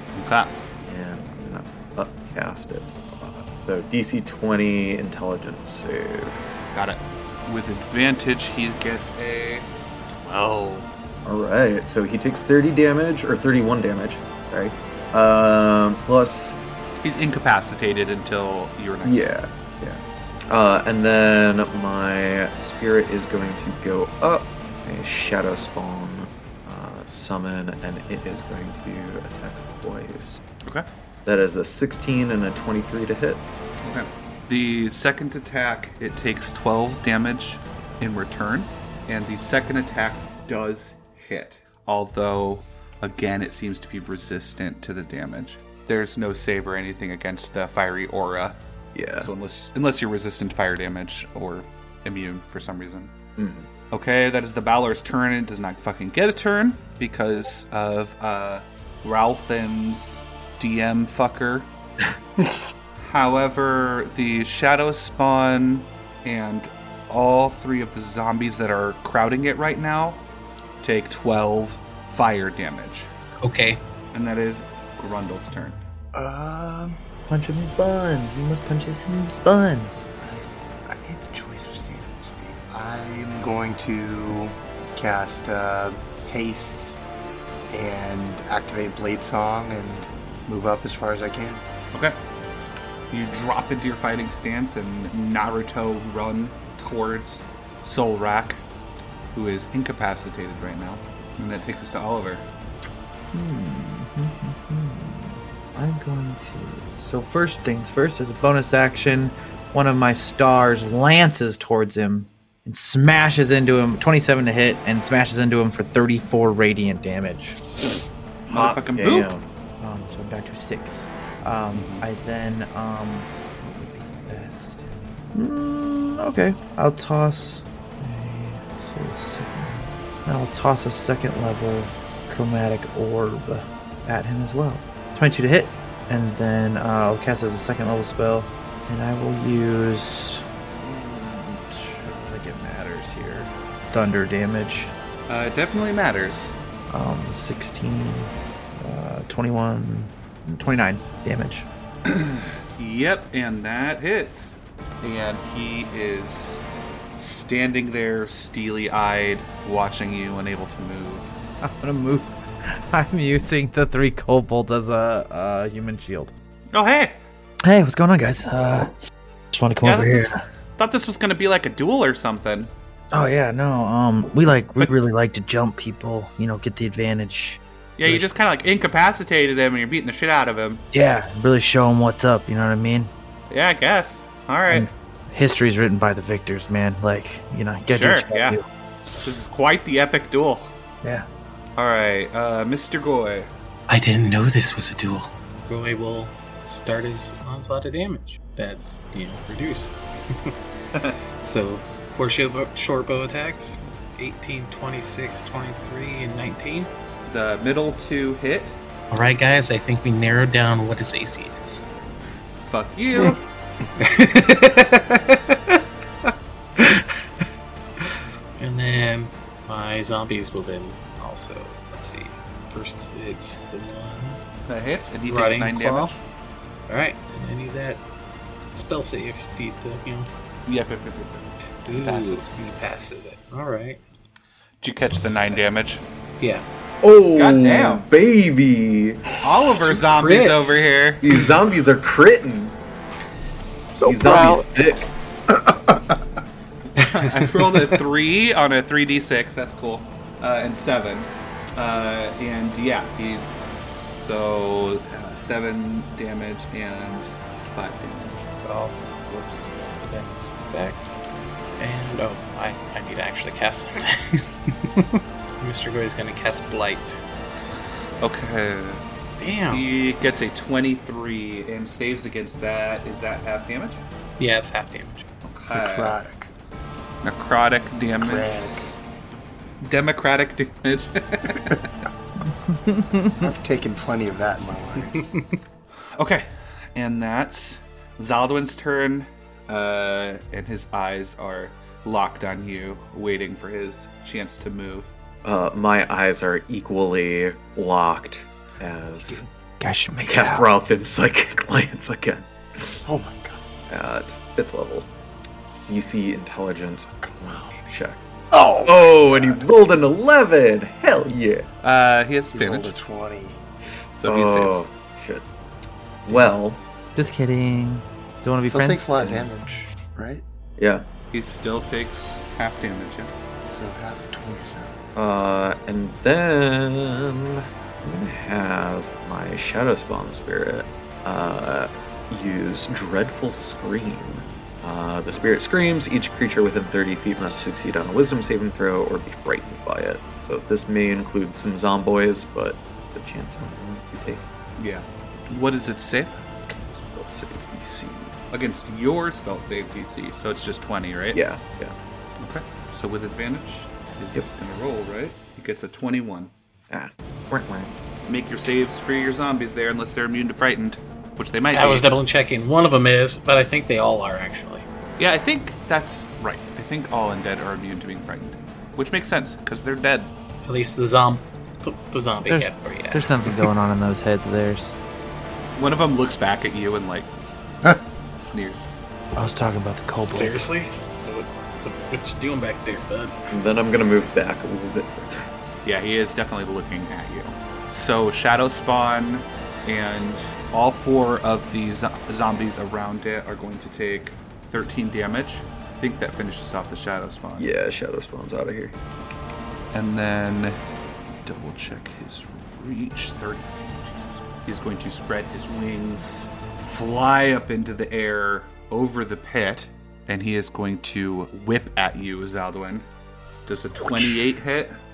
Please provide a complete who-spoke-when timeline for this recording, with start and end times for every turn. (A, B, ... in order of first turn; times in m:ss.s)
0:00.2-0:00.5 A
0:00.8-0:06.4 B
0:06.7-0:10.9 A
0:11.2-0:16.6 B
0:17.0-0:19.3 A
0:19.0-0:30.4 B
0:31.2-0:33.4 B
0:33.8-0:48.6 A
0:48.9-0:49.3 B
0:49.2-0:53.1 A
0:53.4-0:53.7 B
0:53.9-1:01.7 A
1:03.0-1:10.2 A
1:10.8-1:13.1 A
1:13.4-1:13.8 C
1:14.1-1:15.8 A
1:16.1-1:17.0 D
1:17.3-1:20.0 E
1:20.2-1:27.0 D
1:27.7-1:31.6 D
1:33.1-1:38.6 A
1:39.3-1:42.4 A
1:43.3-1:57.6 E
1:58.5-1:59.3 A
1:58.5-1:59.4 B
1:59.8-2:24.9 E
2:01.7-2:02.0 A
2:25.3-2:26.5 A
2:26.9-2:31.7 E
2:32.0-2:36.6 A
2:37.2-2:41.3 A
2:41.6-2:46.3 E
2:46.7-2:47.2 A
2:47.6-2:48.9 E
2:49.5-2:50.4 E
2:49.8-2:52.7 A
2:53.1-2:58.3 E
2:58.0-3:00.8 A
3:00.9-3:03.1 E
3:03.5-3:04.9 A
3:04.7-3:08.6 E
3:07.9-3:08.6 A
3:09.2-3:10.7 A
3:11.8-3:13.5 A
3:13.9-3:20.5 C
3:21.4-3:26.9 C
3:27.3-3:28.7 A
3:29.1-3:31.8 C
3:32.7-3:33.4 A
3:34.0-3:35.7 C
3:36.8-3:37.4 C
3:38.0-3:44.4 C
3:44.7-3:46.2 A
3:45.3-3:46.1 C
3:46.9-3:48.0 C
3:48.6-3:50.3 C
3:50.6-3:52.5 A
3:51.8-3:54.0 C
3:54.8-3:56.0 A
3:56.4-3:56.6 C
3:57.0-3:59.2 B
3:57.3-3:58.1 A
3:59.4-4:01.2 A
3:59.8-4:00.9 C
4:01.2-4:02.7 B
4:04.0-4:04.7 E
4:04.0-4:05.1 B
4:07.0-4:08.0 C
4:07.0-4:18.5 A
4:18.5-4:21.1 C
4:21.8-4:27.2 C
4:28.2-4:29.0 A
4:29.4-4:29.8 C
4:29.7-4:34.0 A
4:34.4-4:35.2 C
4:35.4-4:36.2 A
4:35.7-4:36.5 D
4:37.2-4:38.9 A
4:38.2-4:38.9 D
4:39.8-4:41.9 A
4:42.4-4:43.5 E
4:43.4-4:45.3 D
4:46.2-4:55.1 A
4:55.4-4:59.4 B
4:59.3-5:00.7 E
5:00.2-5:03.0 B
5:03.0-5:03.6 D
5:03.9-5:05.1 B
5:05.9-5:08.2 B
5:07.2-5:07.7 D
5:08.5-5:09.6 D
5:08.8-5:11.7 B
5:11.8-5:12.9 A
5:12.5-5:13.6 D
5:14.2-5:14.9 A
5:14.3-5:15.4 B
5:16.2-5:16.8 B
5:17.1-5:19.1 E
5:18.7-5:20.4 D
5:19.2-5:19.5 B
5:20.8-5:21.0 B
5:21.3-5:23.3 A
5:23.6-5:25.0 D
5:25.2-5:44.4 B
5:44.8-5:46.4 A
5:46.9-5:48.3 B
5:48.5-5:51.4 A
5:51.3-5:51.9 B
5:52.4-5:56.5 A
5:56.9-5:57.9 B
5:58.2-6:02.1 A
6:01.7-6:04.9 C
6:05.2-6:10.3 A
6:10.6-6:13.6 C
6:12.5-6:14.9 E
6:15.8-6:17.3 A
6:18.4-6:18.9 A
6:19.4-6:20.7 E
6:20.3-6:23.4 C
6:23.5-6:25.4 B
6:25.8-6:37.7 A
6:37.6-6:39.0 B
6:39.9-6:40.8 A
6:41.4-6:53.1 A
6:53.7-6:55.0 A